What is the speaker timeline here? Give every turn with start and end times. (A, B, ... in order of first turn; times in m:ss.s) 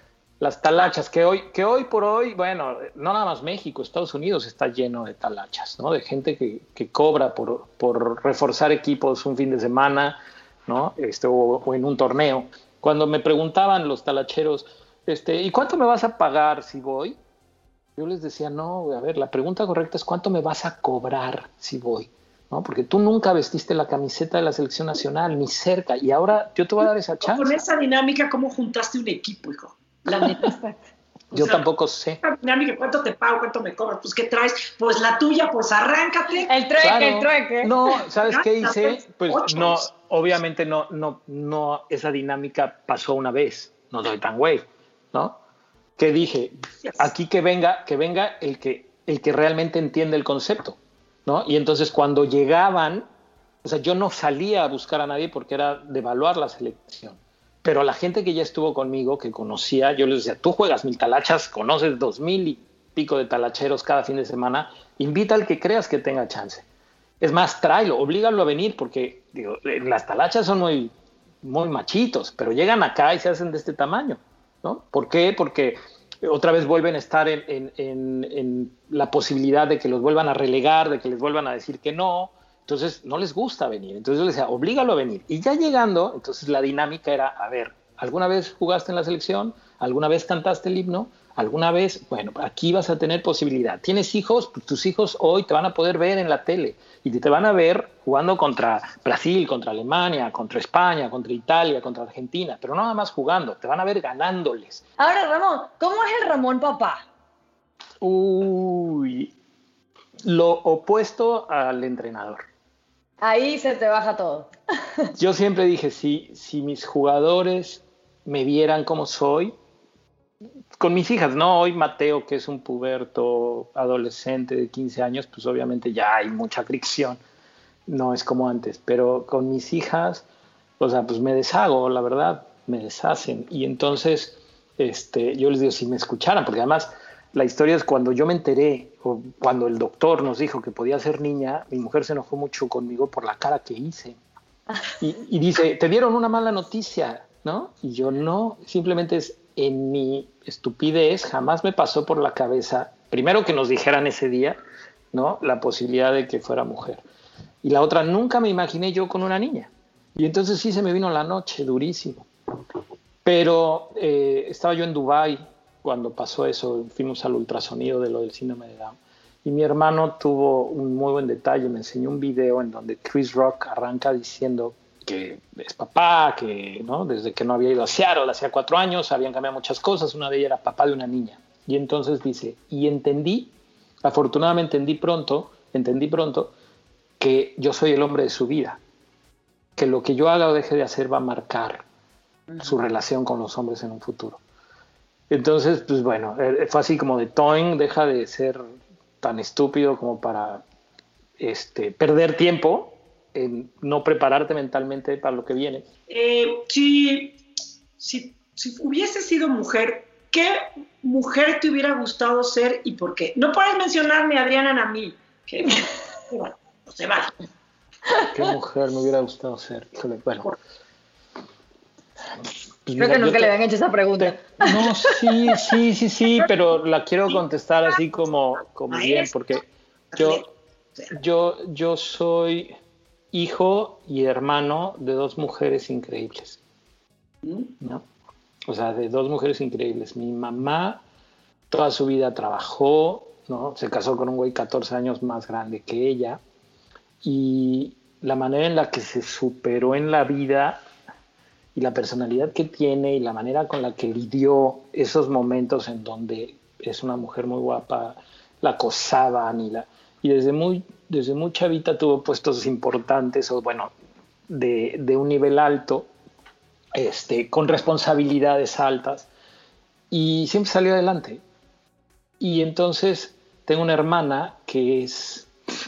0:00.4-0:17.2 A
0:18.0-0:27.6 A
0:27.2-0:30.4 B
0:30.3-0:30.7 C
0:31.3-0:31.6 B
0:31.3-0:32.2 A
0:32.2-0:36.5 B
0:36.5-0:37.7 C
0:36.8-0:45.4 A
0:38.2-0:39.9 B
0:46.0-0:53.1 A
0:53.6-1:06.6 A
1:07.2-1:44.8 A
1:45.0-1:47.0 C
1:48.0-1:49.3 A
1:50.2-1:52.4 A
1:53.2-1:54.5 C
1:55.2-1:59.5 A
2:00.8-2:07.2 A
2:07.9-2:10.2 A
2:10.8-2:24.2 A
2:25.0-2:34.6 A
2:35.1-2:37.0 A
2:37.6-2:42.3 A
2:43.2-3:06.5 A
3:07.2-3:08.8 A
3:09.8-3:11.8 A
3:12.6-3:14.4 A
3:15.3-3:18.6 A
3:19.2-3:20.6 A
3:21.4-3:25.9 A
3:26.1-3:27.4 B
3:28.0-3:37.3 B
3:38.3-3:40.5 A
3:42.8-3:43.5 A
3:43.0-3:45.2 C
3:44.2-3:49.6 A
3:48.9-3:49.3 B
3:50.1-3:50.4 B
3:50.2-3:50.4 A
3:51.1-3:52.7 A
3:53.3-3:56.6 A
3:57.4-3:57.7 B
3:58.7-4:01.0 A
4:01.7-4:06.4 A
4:07.2-4:10.8 A
4:11.7-4:23.9 A
4:24.5-4:26.1 A
4:26.9-4:29.3 A
4:30.1-4:31.4 A
4:32.4-4:35.5 A